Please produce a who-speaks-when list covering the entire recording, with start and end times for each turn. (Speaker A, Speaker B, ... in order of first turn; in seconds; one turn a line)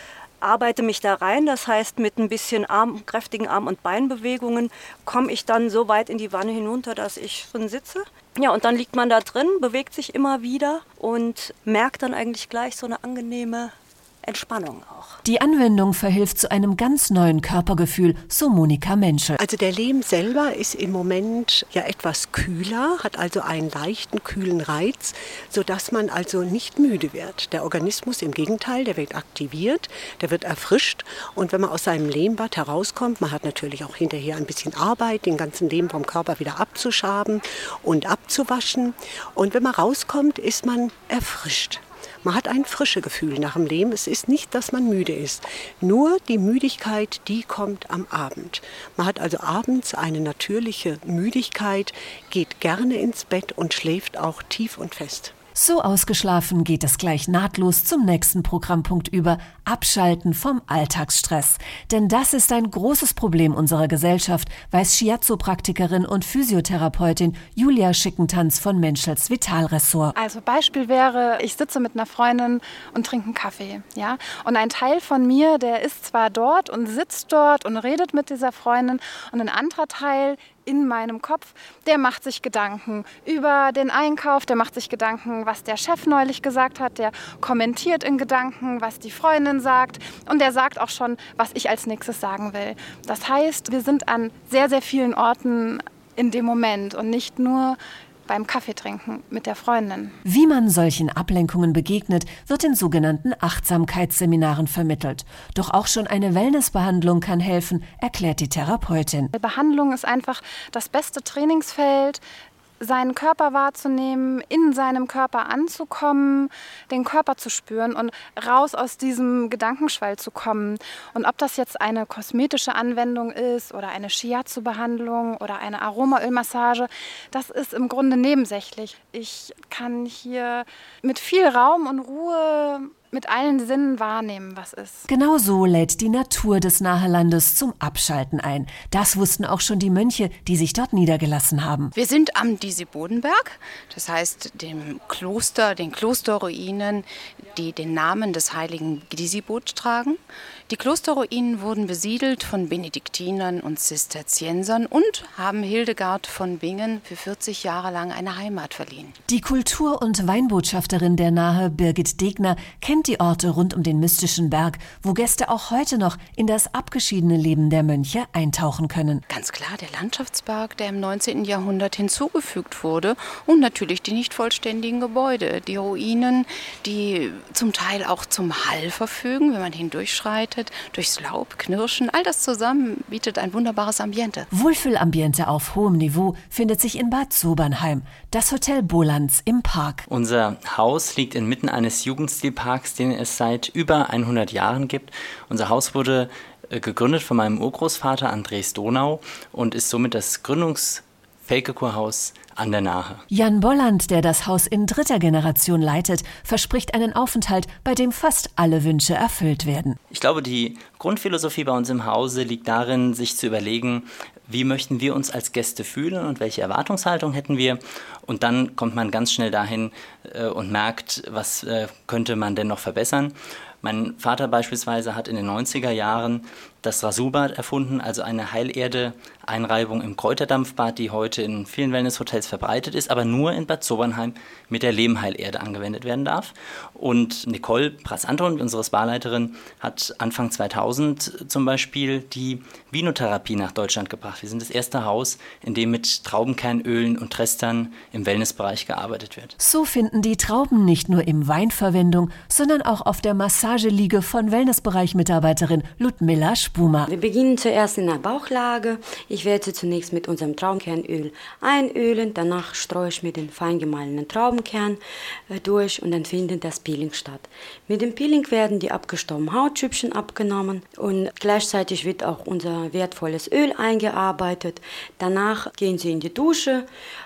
Speaker A: 0.4-15.2
Speaker B: 15.2-19.4
Speaker C: 19.4-55.3
Speaker B: 55.5-70.1
Speaker D: 70.2-100.2
Speaker B: 100.2-109.3
Speaker D: 109.3-112.2
Speaker D: 112.8-135.1
Speaker B: 135.1-141.9
Speaker E: 142.0-143.4
Speaker E: 143.9-147.0
Speaker E: 147.6-150.2
Speaker E: 150.7-159.1
Speaker B: 159.3-169.2
Speaker E: 169.3-177.8
Speaker E: 178.4-184.5
Speaker B: 184.5-190.0
Speaker F: 190.1-203.2
Speaker B: 203.3-210.0
Speaker F: 210.1-249.5
Speaker B: 249.6-257.1
Speaker G: 257.1-276.9